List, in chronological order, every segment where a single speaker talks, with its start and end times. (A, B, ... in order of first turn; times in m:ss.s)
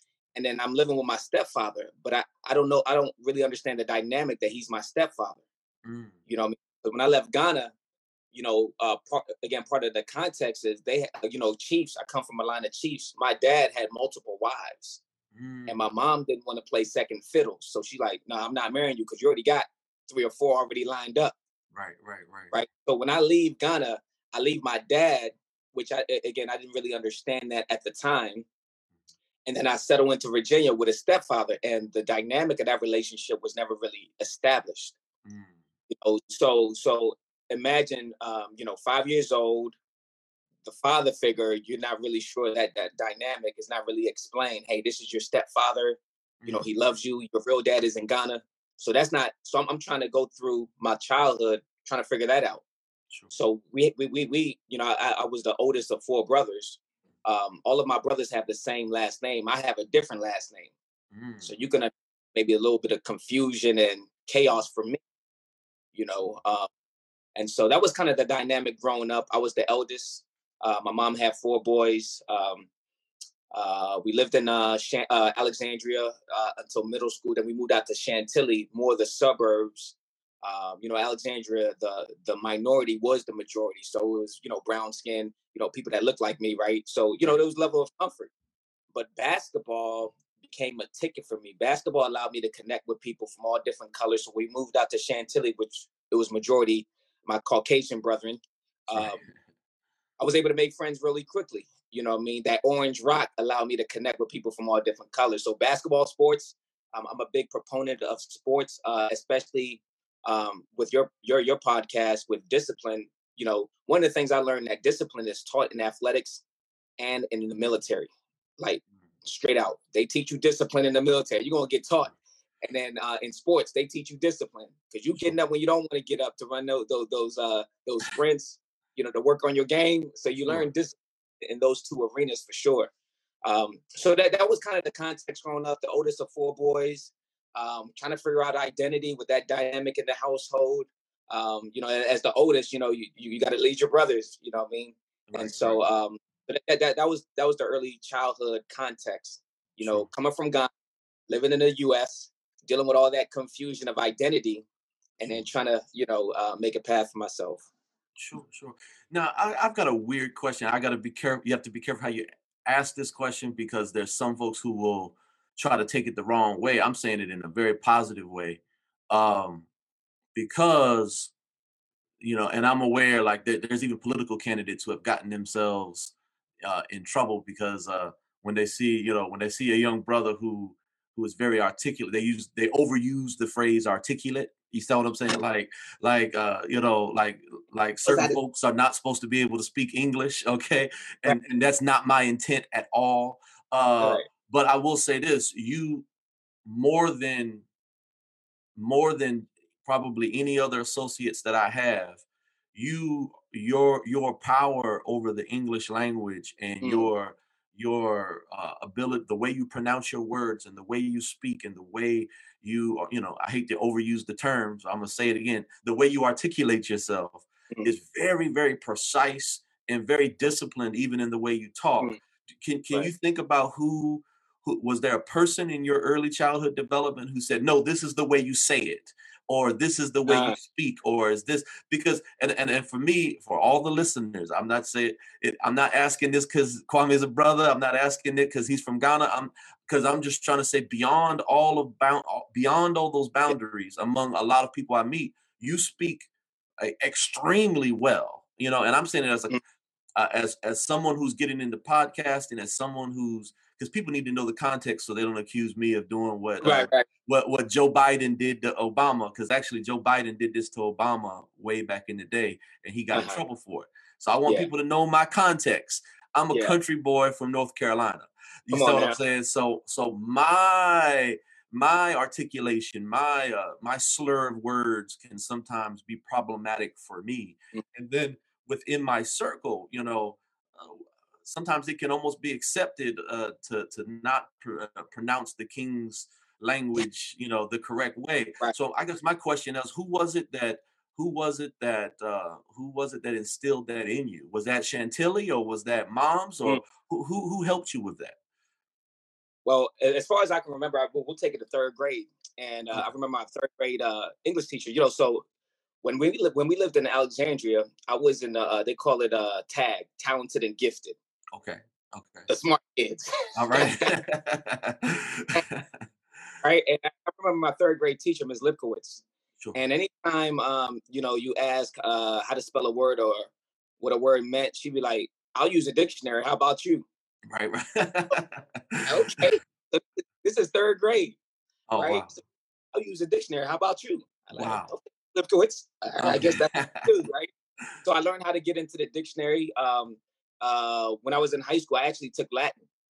0:00.4-0:05.4 A
0:05.8-0:06.2 B
0:06.3-0:07.7 A
0:08.3-0:15.0 A
0:15.3-0:15.8 B
0:15.7-0:21.4 A
0:21.7-0:22.5 B
0:22.5-0:28.5 A
0:29.5-0:35.0 A
0:35.2-0:35.6 B
0:35.9-0:39.8 A
0:40.6-0:52.6 A
0:46.4-0:46.7 B
0:53.3-1:00.7 A
1:01.1-1:01.5 B
1:01.4-1:05.0 A
1:05.9-1:06.7 A
1:07.4-1:12.7 A
1:13.5-1:28.3 A
1:28.9-1:39.2 A
1:38.9-1:39.4 B
1:40.2-1:56.4 A
1:57.0-2:02.1 A
2:02.6-2:12.9 A
2:13.4-2:30.7 A
2:25.3-2:25.8 B
2:29.8-2:30.1 B
2:31.3-2:34.6 A
2:35.2-2:37.6 A
2:38.2-2:49.7 B
2:50.4-2:51.3 B
2:52.2-3:16.1 B
3:08.1-3:08.4 A
3:14.0-3:14.3 A
3:16.7-3:17.6 B
3:18.8-3:22.2 B
3:22.8-4:06.3 B
3:26.8-3:27.1 A
3:50.3-3:50.6 A
4:06.8-4:09.6 B
4:10.2-4:58.4 B
4:16.6-4:17.1 A
4:23.1-4:23.4 A
4:28.7-4:29.2 A
4:59.7-5:05.4 A
5:06.0-5:11.2 A
5:11.5-5:12.5 B
5:12.5-5:14.1 A
5:13.6-5:15.9 B
5:16.6-5:19.2 A
5:19.7-5:23.5 A
5:24.0-5:27.1 A
5:27.5-5:29.4 B
5:29.1-5:31.4 A
5:31.9-5:32.4 B
5:32.0-5:32.4 A
5:32.9-5:37.5 A
5:34.6-5:34.9 B
5:36.2-5:37.1 B
5:38.0-5:42.8 A